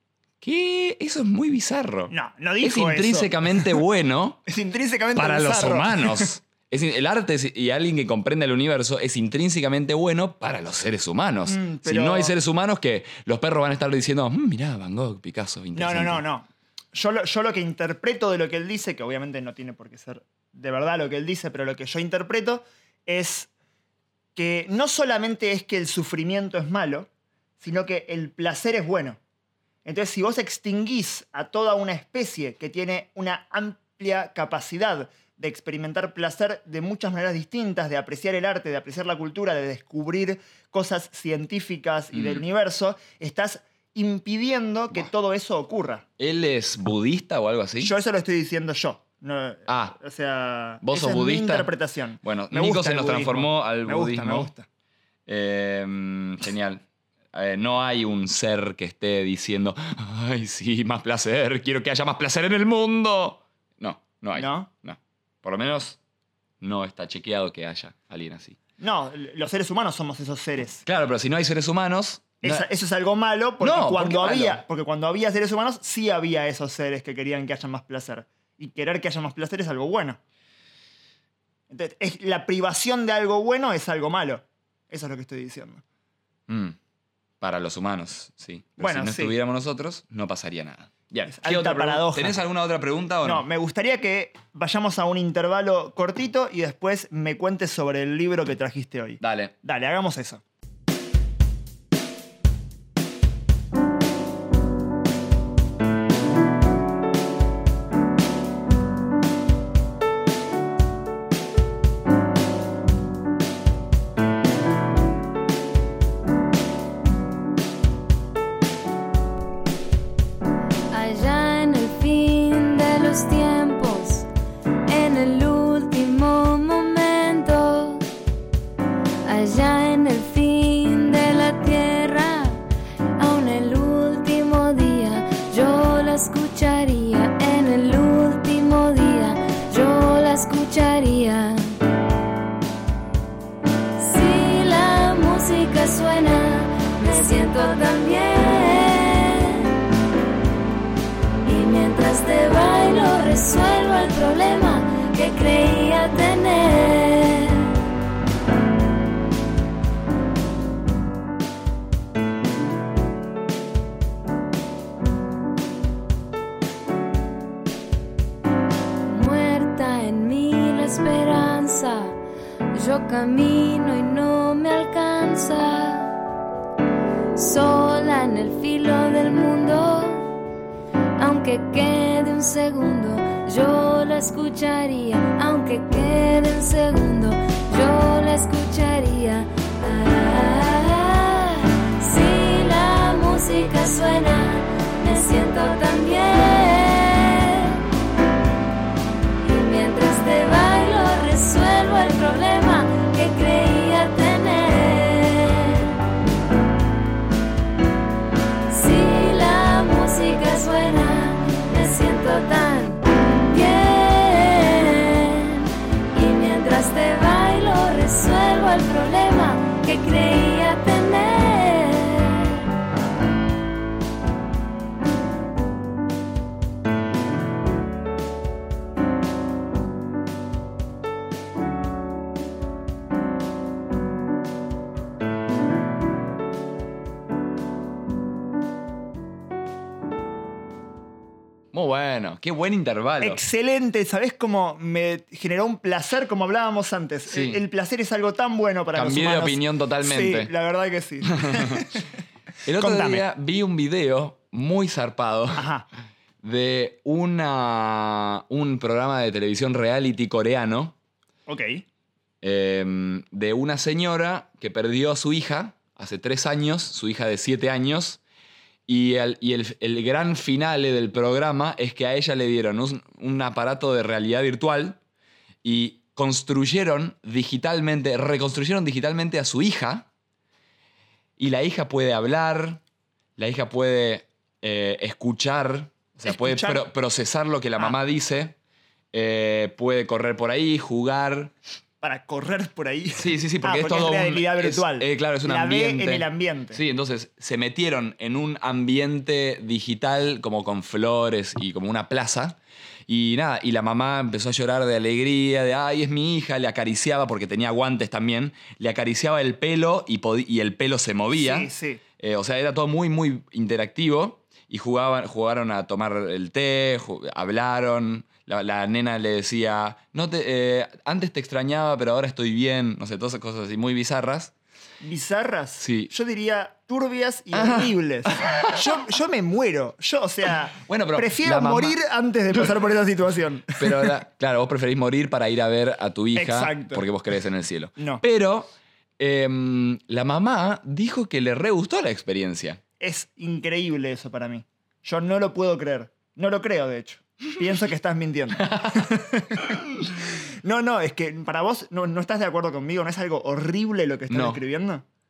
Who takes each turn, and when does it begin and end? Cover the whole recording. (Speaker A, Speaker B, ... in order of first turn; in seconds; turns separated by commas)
Speaker A: 0.4-4.4, Speaker B: 2.1-3.8, Speaker B: 4.5-6.3, Speaker A: 5.1-16.2, Speaker B: 11.5-12.3, Speaker B: 15.8-23.5, Speaker B: 24.4-27.1, Speaker B: 27.6-29.2, Speaker B: 29.9-46.0, Speaker A: 42.1-42.4, Speaker A: 46.2-47.9, Speaker B: 47.8-54.6, Speaker A: 49.7-50.0, Speaker A: 50.8-51.7, Speaker A: 52.2-54.5, Speaker A: 55.3-66.0, Speaker B: 64.4-64.7, Speaker A: 66.6-68.6, Speaker B: 68.8-70.8, Speaker A: 70.8-72.7, Speaker B: 72.4-80.2, Speaker A: 73.6-74.6, Speaker B: 81.7-85.8, Speaker A: 86.5-86.8, Speaker A: 87.4-93.5, Speaker B: 88.8-89.3, Speaker B: 91.3-92.4, Speaker B: 93.2-100.4, Speaker A: 99.2-99.5, Speaker C: 120.9-124.3, Speaker C: 124.9-128.1, Speaker C: 129.2-132.6, Speaker C: 133.2-141.8, Speaker C: 144.0-149.8, Speaker C: 151.4-157.7, Speaker C: 169.1-172.2, Speaker C: 172.7-176.1, Speaker C: 177.4-180.3, Speaker C: 181.2-197.8, Speaker C: 199.4-206.0, Speaker C: 208.7-222.7, Speaker A: 241.7-243.4, Speaker B: 243.2-252.1, Speaker A: 247.3-247.6, Speaker A: 248.9-250.5, Speaker A: 251.3-251.9, Speaker A: 252.7-255.7, Speaker B: 252.7-253.2, Speaker B: 255.6-255.9, Speaker A: 256.4-260.9, Speaker B: 261.5-261.8, Speaker A: 262.4-268.2, Speaker A: 268.9-275.0, Speaker A: 275.6-280.1, Speaker A: 281.4-282.8, Speaker A: 283.4-288.6, Speaker B: 286.2-286.9, Speaker A: 289.1-291.5, Speaker B: 292.0-296.8, Speaker A: 293.2-324.5, Speaker B: 311.4-312.0, Speaker B: 325.0-334.1, Speaker A: 325.8-326.1, Speaker A: 327.5-329.0, Speaker A: 330.8-332.0, Speaker A: 333.8-342.8, Speaker B: 336.4-337.1, Speaker B: 338.0-338.2, Speaker B: 343.0-355.0, Speaker A: 348.6-349.1, Speaker A: 354.3-354.6